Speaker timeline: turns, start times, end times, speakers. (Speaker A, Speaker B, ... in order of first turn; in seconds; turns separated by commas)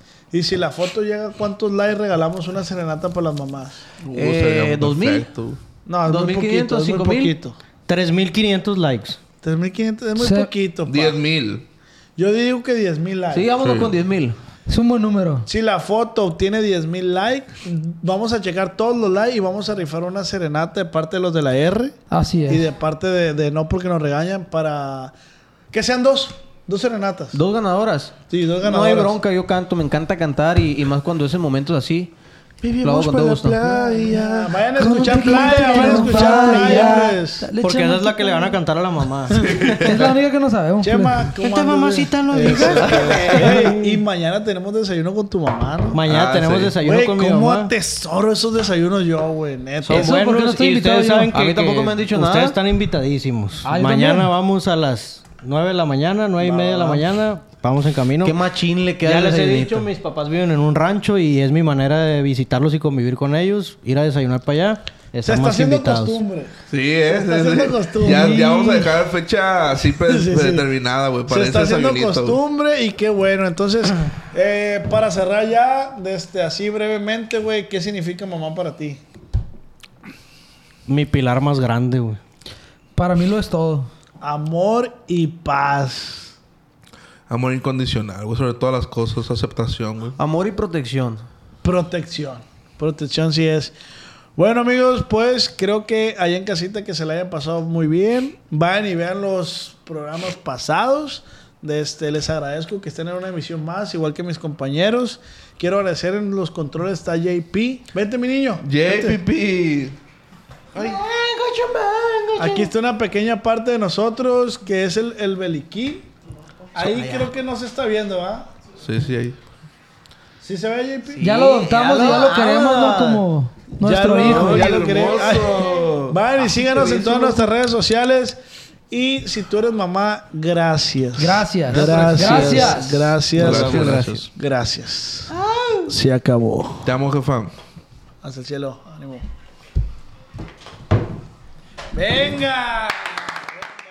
Speaker A: 0.3-3.8, Speaker B: 4.0-5.6, Speaker C: 4.1-5.3, Speaker A: 5.8-7.6, Speaker C: 6.1-7.3, Speaker D: 7.9-9.2, Speaker A: 9.4-11.2, Speaker E: 10.2-10.5, Speaker B: 10.9-11.6, Speaker A: 12.2-13.5, Speaker C: 13.3-14.3, Speaker B: 13.6-13.9, Speaker E: 14.7-15.5, Speaker A: 15.4-25.1, Speaker E: 22.1-22.6, Speaker A: 25.7-27.4, Speaker C: 27.3-32.1, Speaker A: 28.3-29.2, Speaker B: 32.6-35.1, Speaker C: 32.8-33.8, Speaker A: 33.8-37.5, Speaker C: 34.8-36.9, Speaker E: 34.8-38.6, Speaker D: 37.6-40.0, Speaker B: 39.3-40.1, Speaker E: 39.8-41.3, Speaker A: 40.8-46.0, Speaker D: 41.4-43.9, Speaker B: 42.6-43.3, Speaker C: 42.7-43.6, Speaker D: 45.9-47.7, Speaker B: 46.0-46.8, Speaker A: 46.8-50.1, Speaker E: 49.9-51.3, Speaker D: 49.9-58.4, Speaker C: 49.9-50.3, Speaker C: 51.3-52.6, Speaker E: 53.6-54.3, Speaker A: 56.4-57.0, Speaker C: 58.2-59.9, Speaker D: 59.0-66.2, Speaker A: 65.2-68.8, Speaker B: 66.7-72.4, Speaker E: 68.0-68.8, Speaker A: 70.0-70.7, Speaker A: 71.3-79.0, Speaker D: 80.9-82.2, Speaker E: 83.0-83.9, Speaker A: 84.2-86.3, Speaker B: 87.3-90.2, Speaker C: 90.2-91.2, Speaker A: 91.6-93.7, Speaker A: 94.3-109.2, Speaker B: 108.6-110.0, Speaker C: 110.7-112.7, Speaker A: 112.3-116.1, Speaker A: 116.7-118.5, Speaker B: 118.8-119.4, Speaker A: 120.4-123.2, Speaker C: 121.2-122.5, Speaker E: 121.2-124.8, Speaker A: 123.8-135.3, Speaker B: 124.2-126.2, Speaker E: 131.2-132.9, Speaker C: 131.8-133.0, Speaker B: 133.3-134.3, Speaker D: 133.4-134.1, Speaker C: 135.3-135.8, Speaker A: 135.9-136.9, Speaker B: 136.8-137.5, Speaker A: 138.2-139.3, Speaker A: 141.9-143.7